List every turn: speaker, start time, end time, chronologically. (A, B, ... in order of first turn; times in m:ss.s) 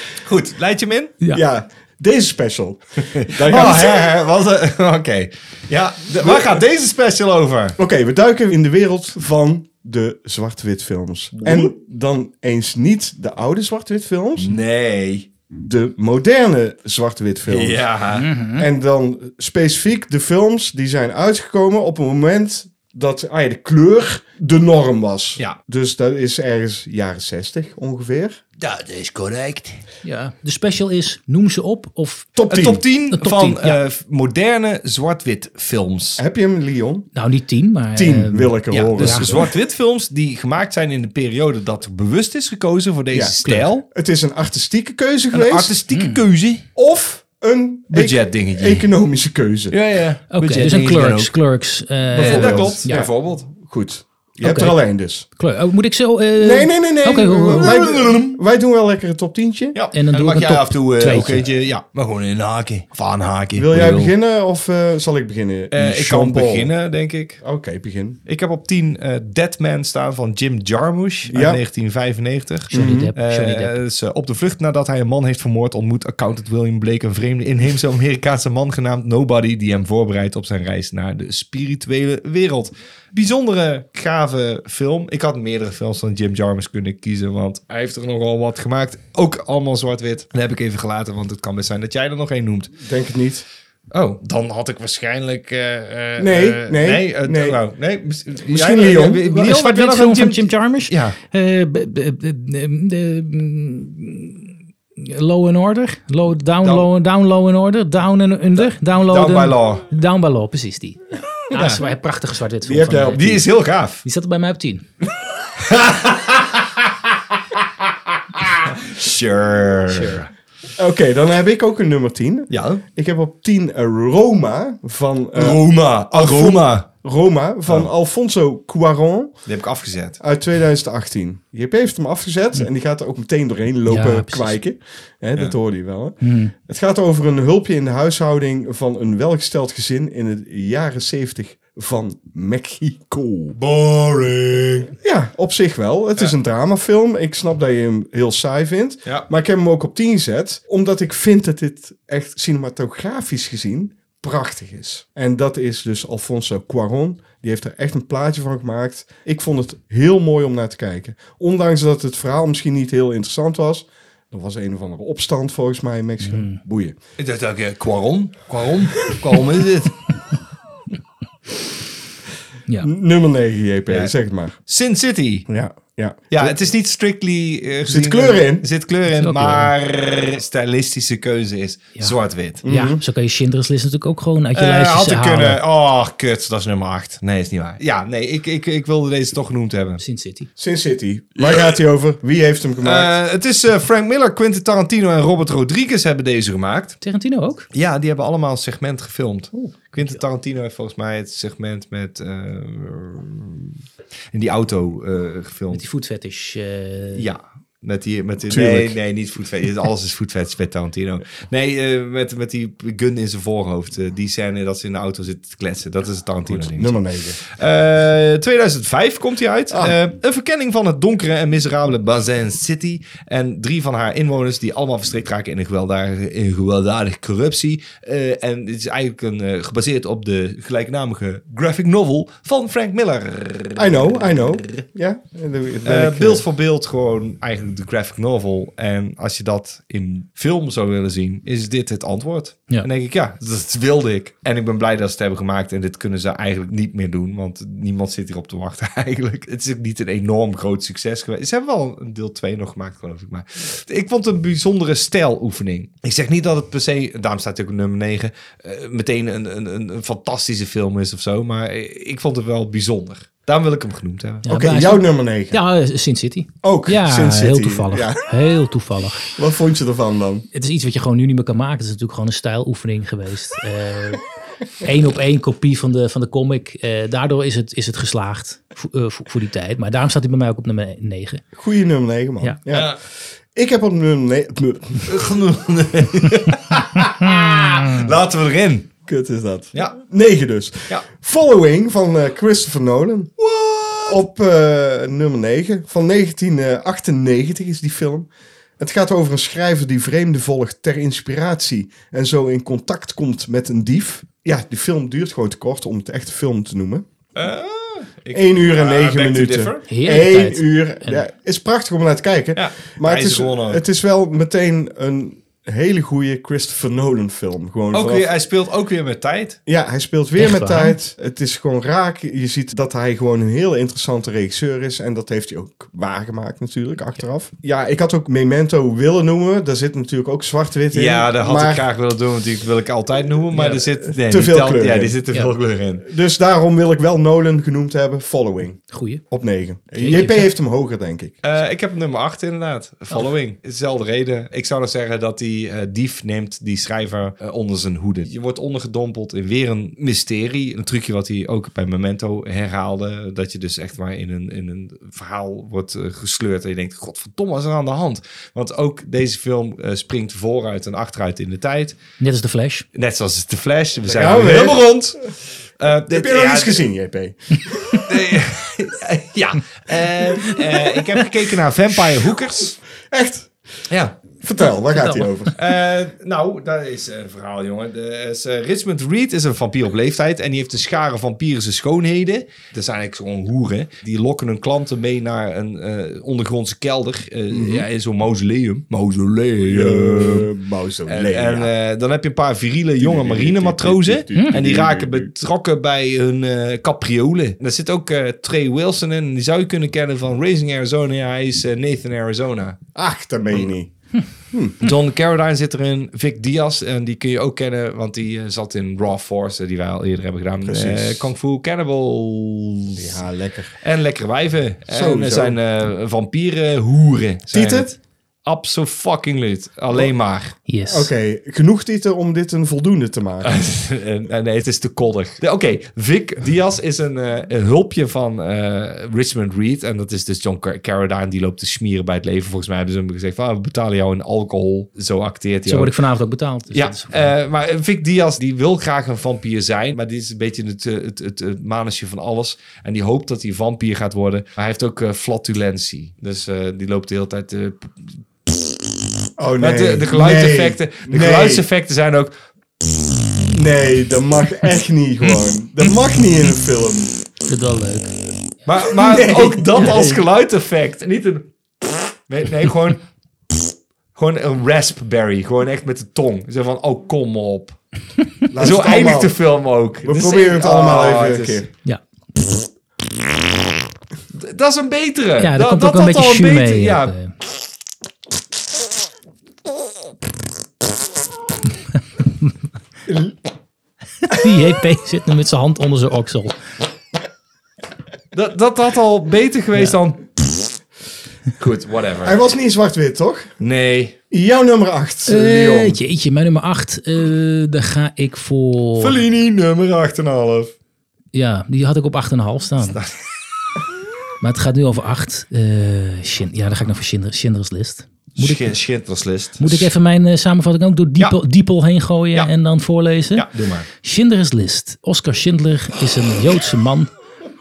0:00.2-0:01.2 A
0:01.3-0:04.1 B
0:03.2-0:07.8 A
0:06.2-0:06.6 B
0:07.8-0:14.6 B
0:11.4-0:11.7 A
0:14.4-0:15.3 A
0:15.6-0:17.8 B
0:17.5-0:18.3 A
0:18.2-0:18.7 C
0:18.5-0:28.4 B
0:28.6-0:29.8 A
0:30.0-0:32.3 C
0:32.4-0:32.8 B
0:32.5-0:36.2 A
0:33.1-0:33.8 C
0:36.2-0:37.1 B
0:37.2-0:39.4 C
0:38.0-0:39.5 B
0:38.7-0:43.8 A
0:43.1-0:45.7 B
0:45.3-0:46.7 A
0:45.9-0:46.2 C
0:46.8-0:49.8 B
0:47.9-0:48.9 A
0:49.7-0:51.4 A
0:50.3-0:53.0 C
0:52.1-0:53.5 A
0:52.2-0:55.3 B
0:54.4-0:54.8 C
0:55.4-0:57.7 C
0:56.4-0:59.8 B
0:57.5-0:58.4 A
0:59.7-1:04.1 A
0:59.9-1:01.5 C
1:03.6-1:06.7 B
1:05.7-1:07.4 A
1:07.4-1:08.2 B
1:08.3-1:32.8 A
1:11.3-1:11.6 B
1:12.7-1:13.1 B
1:12.7-1:13.8 C
1:32.8-1:33.5 B
1:33.9-1:41.2 A
1:36.2-1:37.6 B
1:38.4-1:39.3 B
1:39.2-1:53.4 C
1:49.1-1:49.8 A
1:51.5-1:51.8 A
1:52.6-1:53.4 B
1:53.1-1:54.0 A
1:54.0-1:54.8 C
1:55.6-1:56.9 A
1:58.3-2:00.3 A
1:59.9-2:00.2 C
2:00.8-2:09.3 B
2:02.5-2:02.8 A
2:05.4-2:06.9 A
2:09.5-2:10.2 A
2:10.2-2:23.6 B
2:13.9-2:14.6 C
2:16.2-2:16.5 C
2:23.6-2:24.9 A
2:25.0-2:47.0 B
2:46.2-2:46.6 C
2:47.2-2:50.0 A
2:52.8-2:54.6 B
2:53.9-2:54.1 A
2:54.7-2:55.5 A
2:55.5-2:56.6 B
2:56.3-3:02.6 A
2:57.9-2:58.7 B
2:59.1-2:59.7 C
3:02.0-3:05.6 C
3:02.6-3:03.0 B
3:04.6-3:10.0 A
3:10.0-3:10.5 C
3:10.6-3:13.1 B
3:12.8-3:17.0 A
3:17.0-3:17.7 C
3:17.7-3:23.8 A
3:19.5-3:20.2 C
3:24.3-3:25.8 A
3:25.7-3:27.2 C
3:27.2-3:54.8 A
3:28.5-3:29.0 B
3:36.5-3:37.4 B
3:39.7-3:40.0 B
3:53.8-3:56.4 B
3:55.8-4:24.5 A
4:24.4-4:29.3 C
4:24.5-4:25.6 B
4:26.6-4:28.2 B
4:29.3-4:30.5 B
4:30.5-4:34.2 C
4:34.8-4:41.4 C
4:41.6-4:43.0 B
4:42.7-4:43.0 A
4:43.5-4:45.3 B
4:45.1-4:48.9 A
4:47.2-4:48.1 C
4:49.1-4:53.3 B
4:49.7-4:50.0 A
4:53.4-4:54.2 A
4:54.1-5:07.1 B
5:07.4-5:09.8 A
5:08.3-5:18.3 B
5:09.9-5:11.2 C
5:12.6-5:13.8 A
5:17.9-5:19.6 A
5:19.7-5:31.9 B
5:20.4-5:21.0 C
5:30.9-5:36.1 A
5:33.6-5:35.2 B
5:36.1-5:41.4 B
5:38.9-5:39.2 C
5:40.0-5:40.5 C
5:41.4-6:02.0 A
6:02.2-6:02.9 C
6:03.0-6:06.8 A
6:04.1-6:04.9 B
6:06.1-6:08.3 B
6:08.1-6:12.8 A
6:13.1-6:13.5 B
6:13.9-6:14.2 A
6:14.4-6:15.6 B
6:14.9-6:15.3 C
6:15.6-6:30.5 A
6:27.5-6:27.8 B
6:29.6-6:31.7 B
6:31.1-6:42.8 A
6:33.0-6:35.3 B
6:43.0-6:43.9 B
6:44.5-6:44.8 B
6:44.8-6:53.2 A
6:50.6-6:51.3 B
6:53.0-6:53.8 B
6:53.8-7:00.6 A
6:54.9-6:55.6 B
6:57.5-6:57.9 B
7:00.7-7:01.1 C
7:00.9-7:03.5 B
7:03.4-7:16.0 A
7:15.7-7:17.3 C
7:16.7-7:28.1 A
7:29.4-7:31.6 B
7:29.6-7:32.3 A
7:33.5-7:37.2 B
7:37.5-7:38.2 C
7:38.7-7:43.6 A
7:38.9-7:40.2 B
7:44.2-7:47.8 A
7:48.5-7:49.4 B
7:48.6-7:51.7 A
7:50.0-7:51.7 B
7:54.4-7:57.2 A
7:55.4-7:57.3 C
8:03.1-8:03.4 B
8:04.2-8:06.6 C
8:08.3-8:10.7 A
8:11.6-8:12.4 A
8:12.2-8:13.5 B
8:13.6-8:14.2 A
8:14.3-8:16.0 B
8:15.3-8:19.2 C
8:19.0-8:20.7 A
8:21.3-8:23.0 C
8:22.9-8:23.3 A
8:24.4-8:28.7 C
8:28.4-8:29.9 A
8:29.6-8:33.5 C
8:33.4-8:33.9 A
8:34.0-8:37.1 C